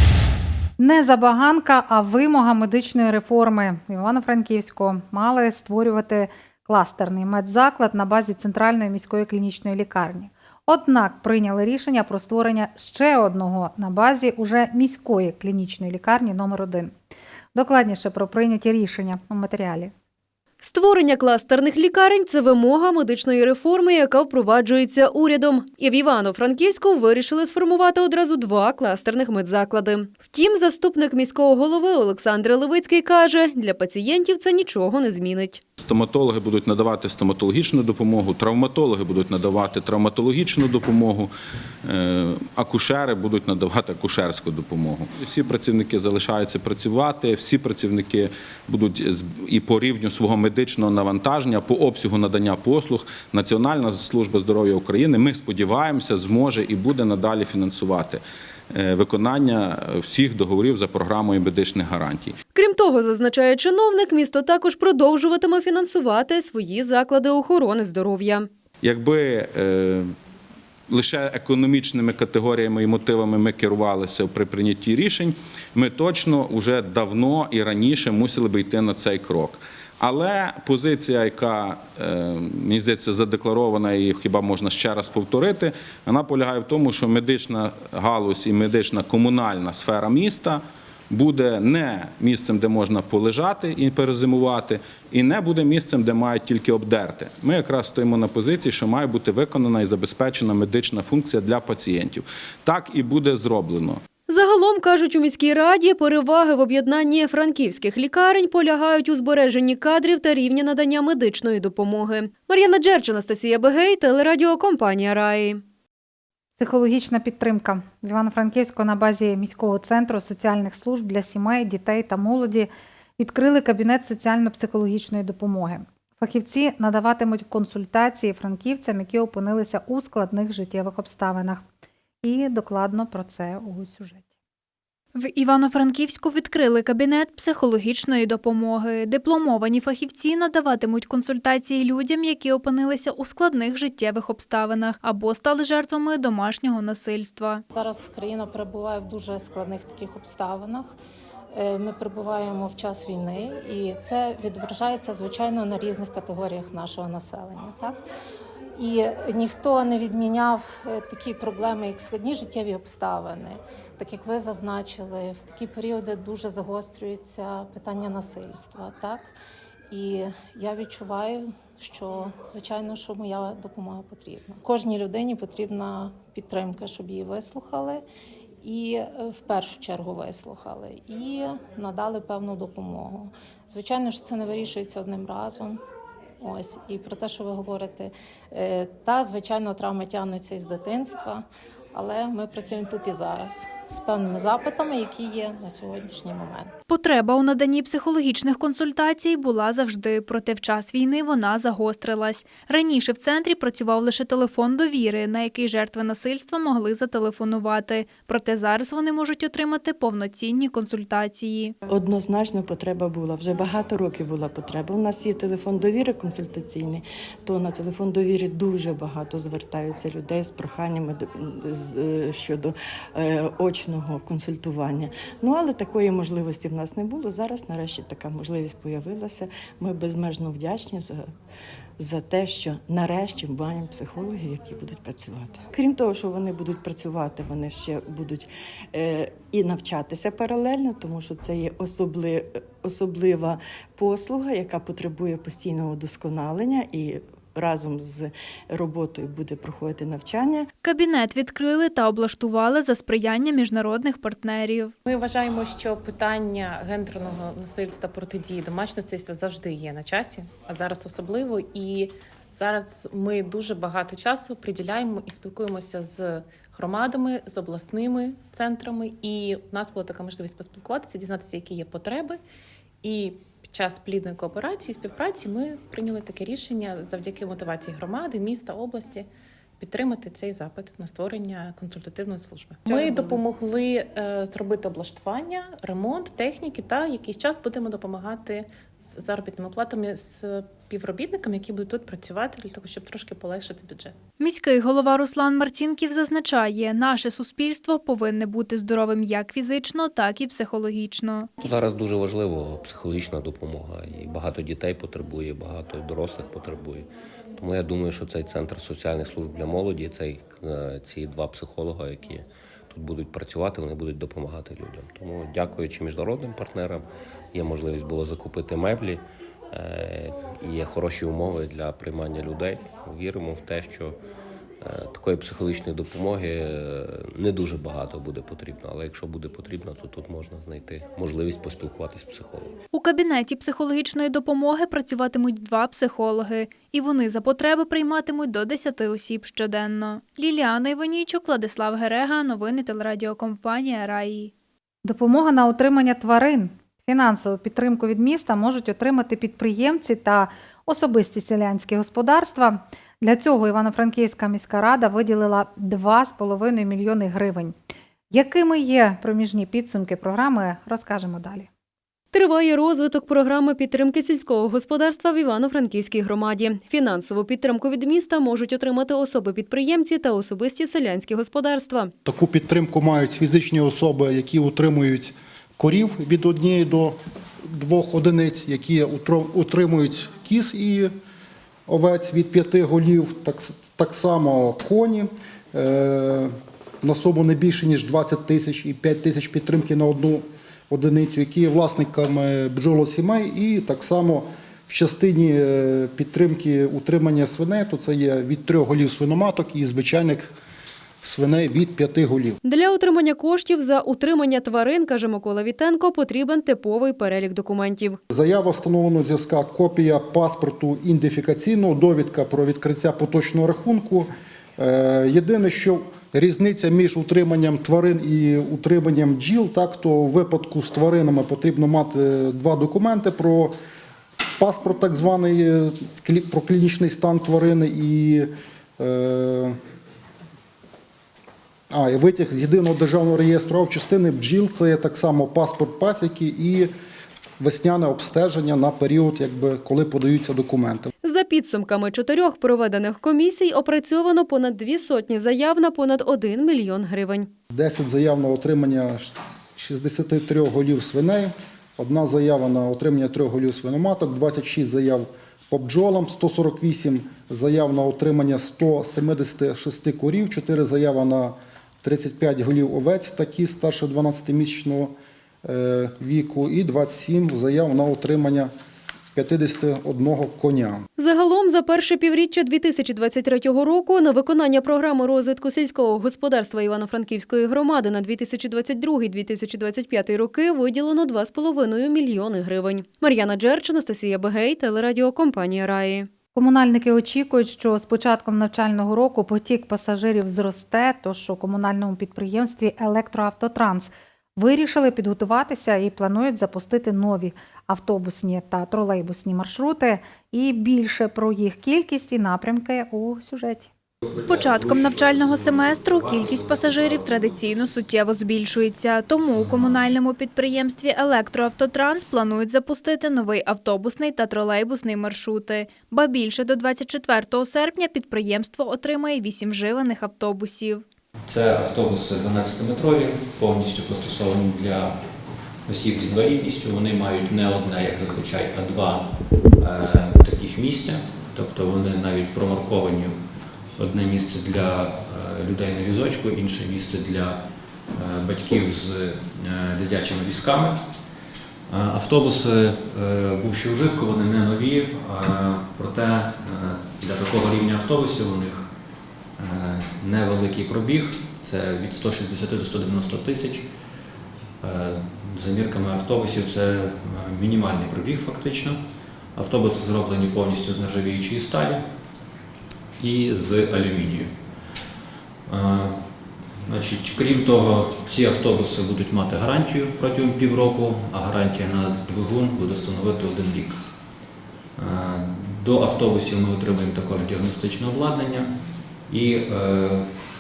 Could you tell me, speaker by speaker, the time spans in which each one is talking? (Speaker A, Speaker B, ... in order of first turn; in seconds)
Speaker A: 0.8-16.9, 17.5-19.9, 116.6-131.6, 132.2-134.2, 345.1-357.8, 358.3-361.7, 486.6-503.9
Speaker B: 20.6-35.6, 62.5-68.5, 104.3-115.6, 362.3-372.1, 402.6-408.2, 441.2-447.5, 471.2-486.3
Speaker C: 35.8-41.3, 41.9-62.4, 68.8-70.1, 70.9-104.0
Speaker D: 135.2-147.6, 196.9-211.7, 250.8-254.9, 282.9-283.4, 294.4-301.5, 332.9-344.5, 504.3-521.0
Speaker E: 147.7-150.9, 151.5-158.1, 158.8-169.3, 169.9-178.0, 178.6-185.8, 186.4-196.7
Speaker F: 211.9-231.2, 232.0-250.7
Speaker G: 255.1-272.4, 273.0-279.3, 279.8-294.2
Speaker H: 301.6-324.2, 324.8-332.7
Speaker I: 372.2-377.2, 377.7-381.1, 381.9-400.5, 401.2-402.6, 408.3-423.8, 424.6-429.8, 431.9-436.9, 437.6-441.1, 447.7-465.1, 465.6-468.7, 469.4-471.1
Speaker J: 521.5-525.2, 525.9-533.4, 534.0-537.6, 538.1-541.0, 541.9-548.9, 549.6-553.9, 554.8-559.0, 559.5-562.0, 563.2-564.5, 565.7-566.2, 566.9-574.0, 575.0-578.7, 579.3-580.3